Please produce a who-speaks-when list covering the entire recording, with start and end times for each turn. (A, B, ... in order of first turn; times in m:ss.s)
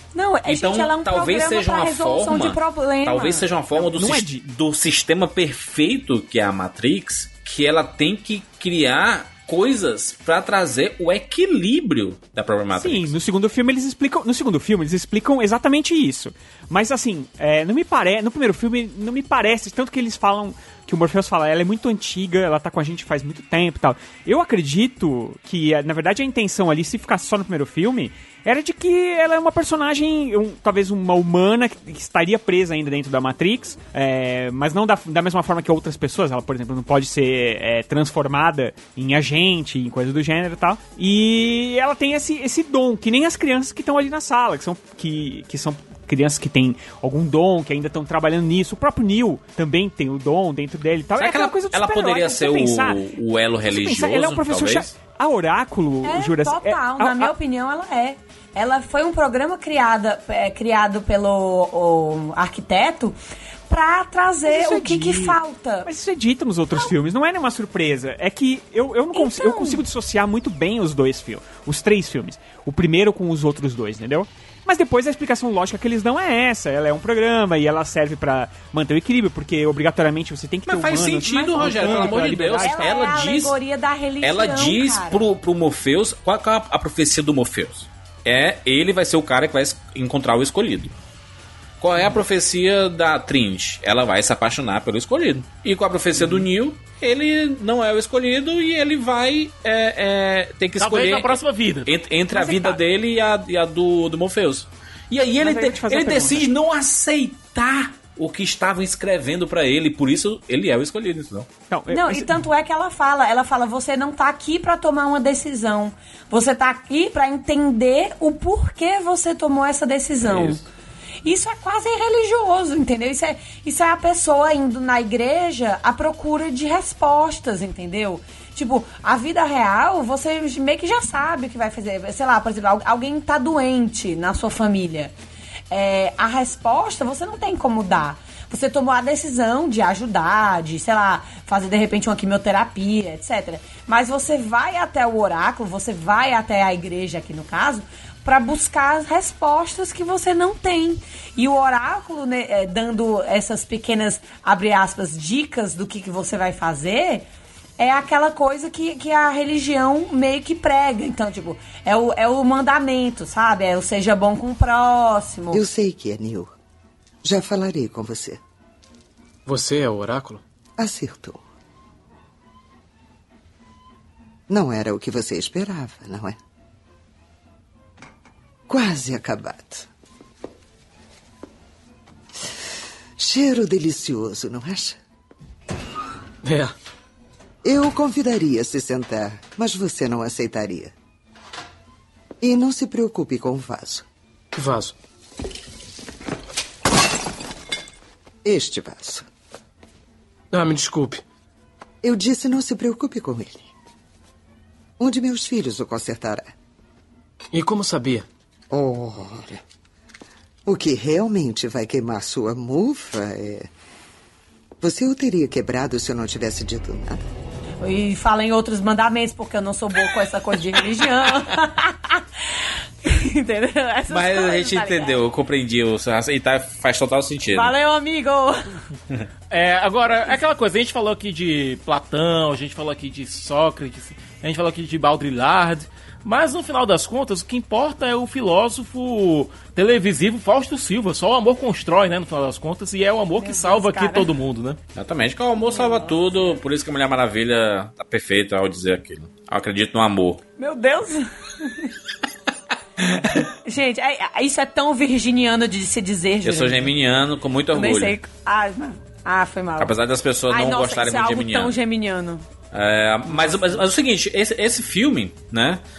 0:00.1-0:03.5 A
0:00.5-0:13.1 B
0:03.8-0:04.4 C
0:12.7-0:53.0 C
0:51.2-0:54.9 B
0:53.6-0:57.3 C
0:56.0-1:03.2 A
1:03.7-1:05.9 A
1:04.5-1:23.2 C
1:09.1-1:09.8 A
1:20.7-1:23.6 B
1:21.6-1:25.2 A
1:24.2-1:30.9 B
1:31.8-1:51.5 B
1:40.8-1:41.9 D
1:42.3-1:42.8 C
1:45.4-1:46.4 C
1:51.7-1:52.4 C
1:51.9-2:00.6 A
2:00.2-2:00.6 B
2:01.2-2:15.1 A
2:15.7-2:37.3 A
2:37.8-2:45.6 A
2:45.5-2:46.5 E
2:47.2-2:48.4 E
2:49.5-2:50.4 F
2:50.8-2:51.4 E
2:54.5-2:56.4 E
2:58.7-2:59.9 E
3:03.2-3:05.0 E
3:06.4-3:06.7 F
3:07.6-3:10.9 E
3:12.4-3:14.0 E
3:14.5-3:14.9 F
3:18.4-3:19.3 E
3:20.5-3:21.2 F
3:22.0-3:23.7 E
3:25.0-3:26.5 E
3:27.5-3:28.3 F
3:28.7-3:29.6 E
3:30.7-3:33.7 E
3:34.8-3:37.3 E
3:37.8-3:42.2 A
3:43.0-3:45.2 A
3:44.1-3:47.7 B
3:47.5-3:48.8 A
3:49.5-4:04.8 D
4:03.4-4:04.3 A
4:05.0-4:10.4 B
4:05.7-4:06.5 A
4:10.6-4:11.9 A
4:13.6-4:16.9 A
4:16.4-4:18.2 B
4:17.7-4:20.0 A
4:19.8-4:21.8 B
4:20.5-4:22.4 A
4:22.7-4:25.8 B